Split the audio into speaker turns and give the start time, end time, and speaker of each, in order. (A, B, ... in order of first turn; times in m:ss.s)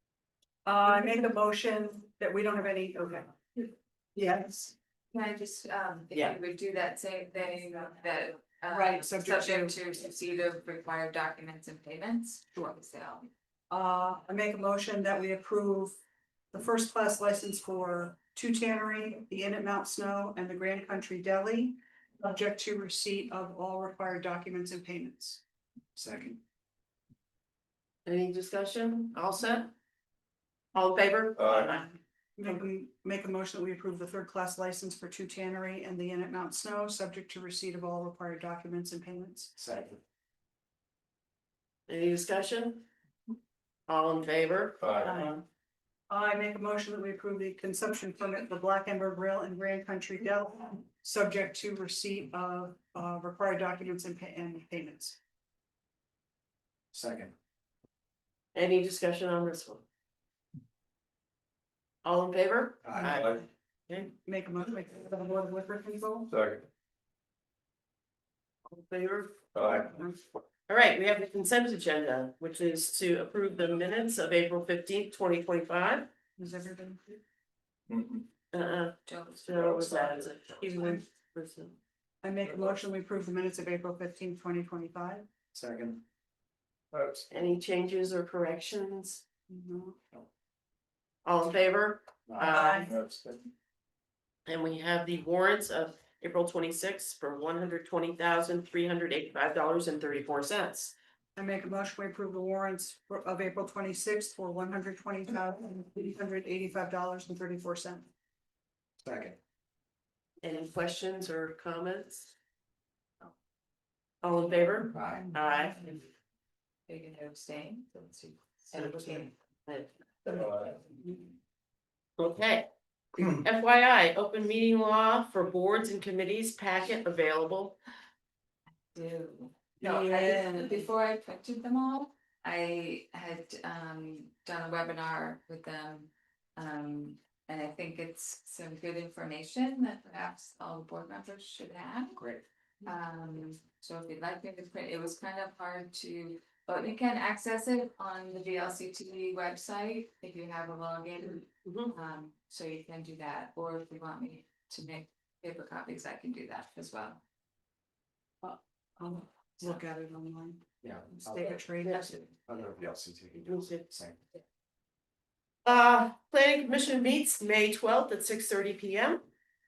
0:00.6-0:04.7 A
0:05.1-0:13.3 B
0:08.7-0:09.8 A
0:13.7-0:16.0 A
0:16.5-0:25.4 A
0:26.0-0:26.2 A
0:26.0-0:26.3 C
0:28.1-0:29.7 D
0:30.7-0:32.0 D
0:31.4-0:31.7 E
0:32.4-0:39.5 A
0:39.6-0:40.0 C
0:41.9-0:42.8 D
0:43.9-0:44.8 D
0:44.8-0:45.2 E
0:45.0-0:45.4 A
0:46.1-0:55.2 A
0:56.9-0:57.3 C
0:58.5-0:59.8 D
1:02.0-1:04.1 D
1:02.8-1:03.4 C
1:04.2-1:06.3 A
1:06.3-1:06.6 E
1:08.7-1:09.4 D
1:09.5-1:09.9 E
1:09.6-1:10.2 A
1:10.7-1:16.1 D
1:16.4-1:17.2 A
1:17.9-1:18.2 E
1:18.5-1:21.8 D
1:19.1-1:20.3 B
1:20.6-1:21.0 A
1:22.2-1:25.2 A
1:25.5-1:26.0 C
1:27.3-1:29.2 D
1:29.5-1:30.0 A
1:31.2-1:32.9 D
1:32.3-1:32.7 C
1:32.5-1:32.9 A
1:32.9-1:33.3 E
1:34.5-1:40.9 D
1:41.4-1:48.1 A
1:49.0-1:49.4 C
1:50.4-1:52.3 D
1:54.2-1:56.0 D
1:56.9-1:59.3 B
1:58.8-1:59.9 D
2:00.4-2:00.7 E
2:02.2-2:07.8 D
2:08.9-2:22.2 B
2:09.8-2:10.8 A
2:22.2-2:22.4 C
2:22.8-2:37.2 B
2:31.6-2:32.0 D
2:38.4-2:42.3 A
2:40.8-2:41.6 C
2:41.4-2:42.3 B
2:42.5-2:44.2 C
2:43.4-2:43.9 D
2:45.6-2:49.2 D